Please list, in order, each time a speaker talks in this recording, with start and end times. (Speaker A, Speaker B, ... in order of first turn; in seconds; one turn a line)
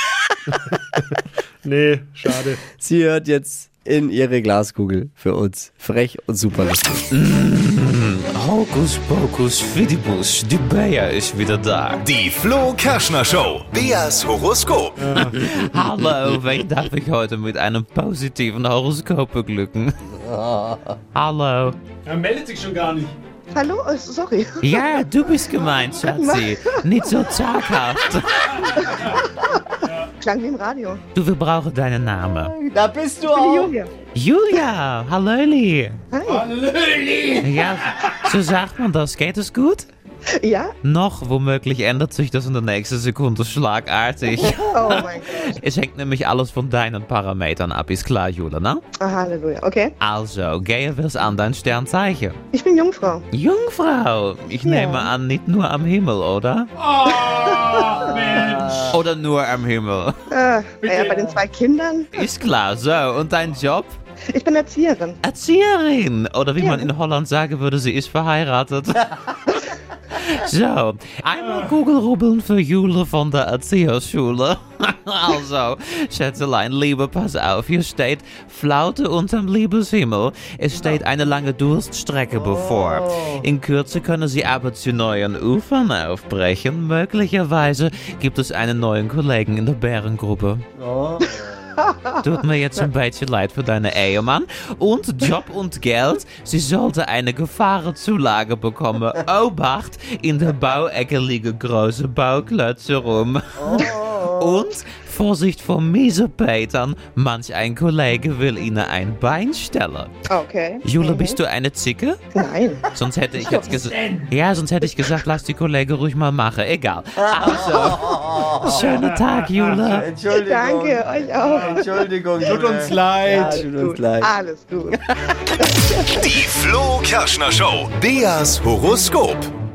Speaker A: 1.6-2.6
Speaker B: 2.8-7.1
Speaker C: 7.1-12.1
Speaker D: 12.1-15.0
Speaker A: 15.0-15.5
Speaker C: 15.2-19.9
Speaker C: 21.1-21.8
Speaker A: 22.1-23.1
Speaker E: 23.5-24.8
Speaker C: 24.6-28.9
Speaker E: 26.0-26.8
Speaker E: 30.2-31.0
Speaker C: 31.1-32.5
Speaker B: 32.4-33.7
Speaker E: 33.2-33.9
Speaker C: 34.1-36.0
Speaker E: 36.1-36.5
Speaker A: 36.2-38.1
Speaker C: 37.4-39.9
Speaker E: 40.4-40.7
Speaker C: 40.8-48.8
Speaker E: 44.4-45.6
Speaker E: 49.0-49.9
Speaker C: 50.0-52.4
Speaker E: 52.5-53.3
Speaker C: 53.3-56.7
Speaker E: 54.6-55.1
Speaker A: 56.8-59.0
Speaker E: 57.1-58.2
Speaker C: 58.9-60.1
Speaker E: 60.3-62.1
Speaker A: 60.8-61.4
Speaker C: 62.1-64.0
Speaker E: 64.3-65.2
Speaker C: 65.2-69.6
Speaker E: 66.6-66.9
Speaker C: 70.2-90.7
Speaker B: 82.3-83.4
Speaker B: 90.8-91.7
Speaker E: 91.8-92.2
Speaker C: 92.2-110.1
Speaker B: 103.6-104.5
Speaker E: 110.3-111.4
Speaker C: 110.8-112.2
Speaker E: 112.3-112.9
Speaker C: 112.9-120.1
Speaker B: 117.2-118.8
Speaker A: 118.8-119.7
Speaker B: 119.8-124.3
Speaker E: 120.3-122.1
Speaker A: 121.4-121.8
Speaker A: 122.4-123.7
Speaker E: 123.2-125.0
Speaker E: 125.6-126.2
Speaker D: 126.2-129.5